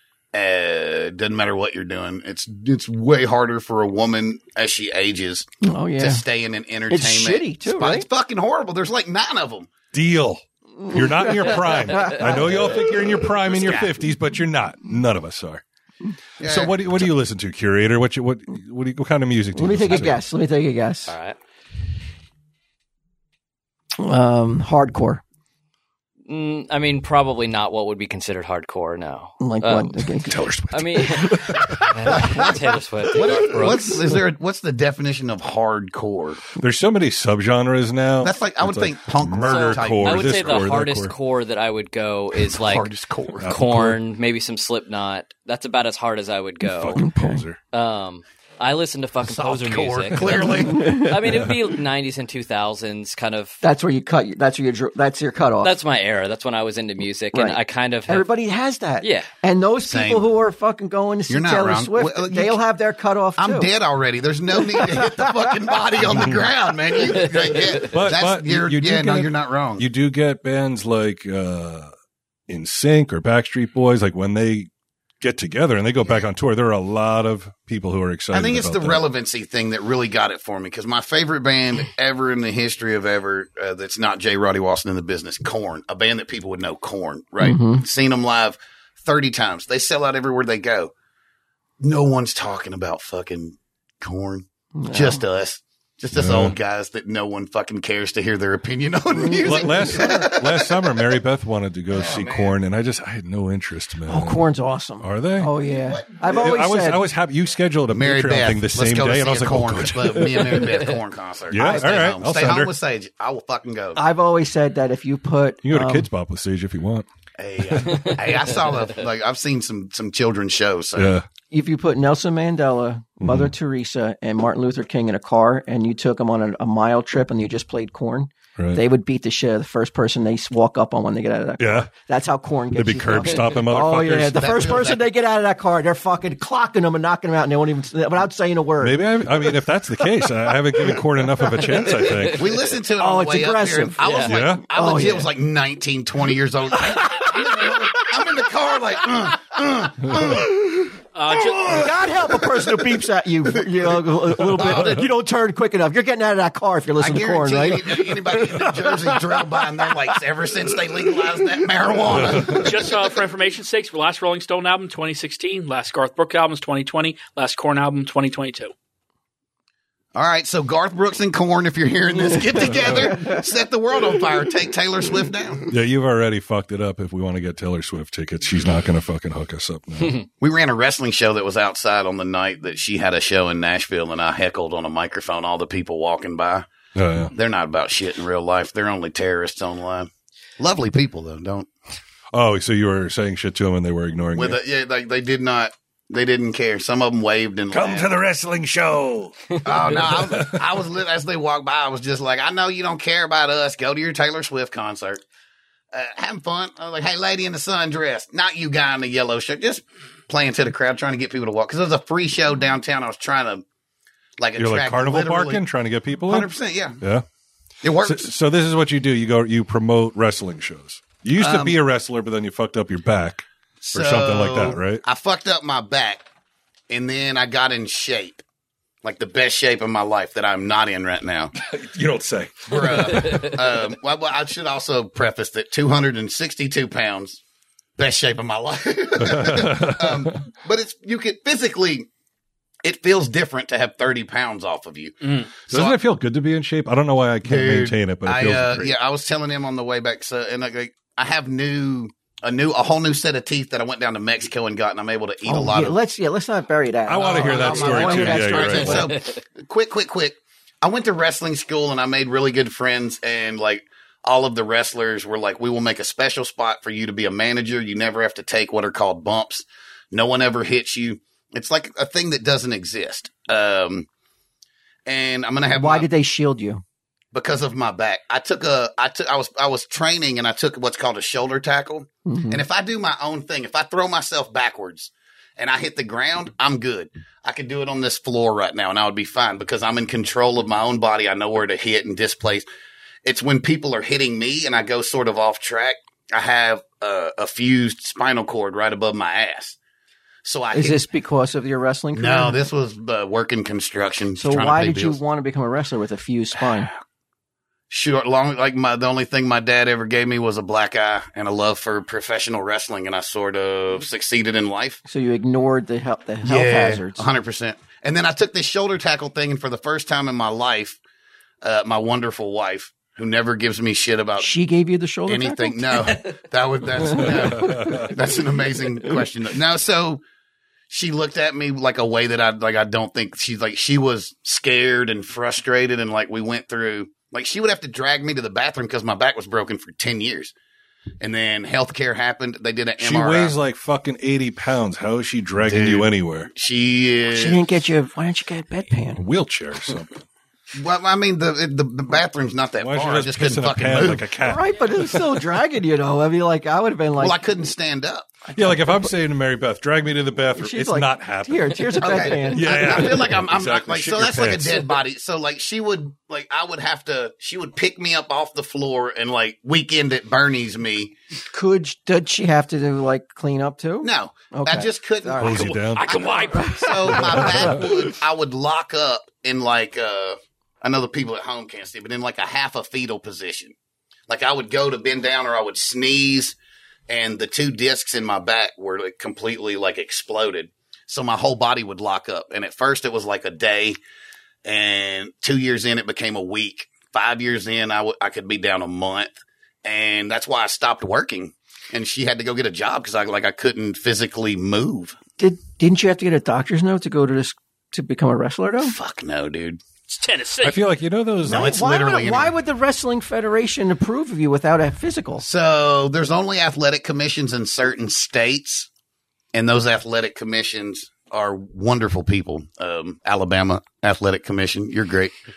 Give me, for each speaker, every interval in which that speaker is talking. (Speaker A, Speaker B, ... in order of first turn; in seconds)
Speaker A: 0.3-9.7, 13.5-13.9, 16.4-17.1, 33.1-36.4, 38.2-40.7, 42.4-43.5, 49.2-51.0, 59.9-60.3, 61.3-62.6, 63.4-69.8, 78.3-90.9, 91.8-101.1, 101.9-102.5, 105.7-106.5, 107.9-114.0, 117.4-121.2, 134.4-135.0, 142.2-151.0, 151.5-152.6, 154.5-155.0, 157.0-163.2, 170.1-175.7, 180.4-186.7, 187.3-191.7, 194.3-198.1, 199.6-205.2, 205.9-213.6, 214.4-215.6, 216.3-217.0, 217.8-218.3, 221.4-221.8, 223.8-226.2, 226.9-228.4, 229.0-231.5, 232.7-237.4, 238.0-242.1, 242.8-245.9, 247.4-256.0, 257.2-274.1, 275.1-276.1, 277.3-292.6, 293.2-299.8, 300.4-301.0, 302.1-305.2, 307.9-315.0, 316.4-321.0, 321.6-324.5, 325.3-330.2, 330.9-340.5, 341.2-343.5, 345.6-347.6, 350.7-354.3, 357.2-358.3, 362.0-371.1, 374.0-383.7, 384.3-386.6, 387.1-394.0, 394.6-405.2, 408.8-409.8, 411.5-412.5, 415.4-418.9, 419.5-425.3
Speaker B: 5.6-6.2, 6.9-8.1, 11.7-12.5, 19.5-21.1, 24.0-25.2, 29.4-30.4, 47.0-47.4, 50.8-51.1, 53.6-55.7, 57.3-63.7, 64.7-65.3, 87.4-87.8, 94.8-95.2, 99.1-100.3, 104.1-107.0, 114.0-116.1, 121.5-139.0, 143.0-145.3, 151.7-159.6, 255.4-259.1, 275.7-276.8, 282.2-282.6, 300.7-302.6, 304.4-306.9, 315.1-317.2, 324.4-326.2, 327.1-328.0, 347.3-349.2, 354.4-357.4, 358.4-359.1, 360.6-363.1, 371.5-375.7, 376.5-377.4, 405.4-408.9, 411.4-415.4
Speaker C: 9.9-15.6, 16.4-20.2, 30.2-32.5, 36.6-41.1, 43.4-44.0, 46.6-47.6, 50.2-51.7, 66.1-66.4, 67.8-71.9, 72.5-74.7, 75.2-79.0, 96.1-96.6, 99.4-104.4, 105.0-105.5, 106.2-110.8, 111.5-112.7, 115.6-117.0, 117.7-118.0, 120.9-121.2, 123.2-123.5, 128.6-128.8, 131.6-131.9, 132.7-134.7, 138.8-142.6, 144.2-144.6, 162.2-162.6, 175.7-180.2, 186.9-187.3, 192.3-194.6, 197.7-200.6, 214.6-216.5, 218.0-225.0, 231.6-233.6, 239.2-240.3, 245.7-248.9, 257.1-259.1, 327.1-328.1, 343.0-346.5, 349.2-350.2, 352.8-355.4, 358.5-365.0, 375.4-376.3, 377.1-377.9, 410.6-411.8
Speaker D: 21.1-21.4, 26.2-30.1, 30.7-34.1, 39.4-42.9, 43.4-47.0, 47.7-53.6, 55.6-58.2, 59.0-59.3, 67.3-67.7, 144.0-144.3
Speaker E: 151.1-151.8, 162.4-168.7, 375.6-377.4, 410.1-410.8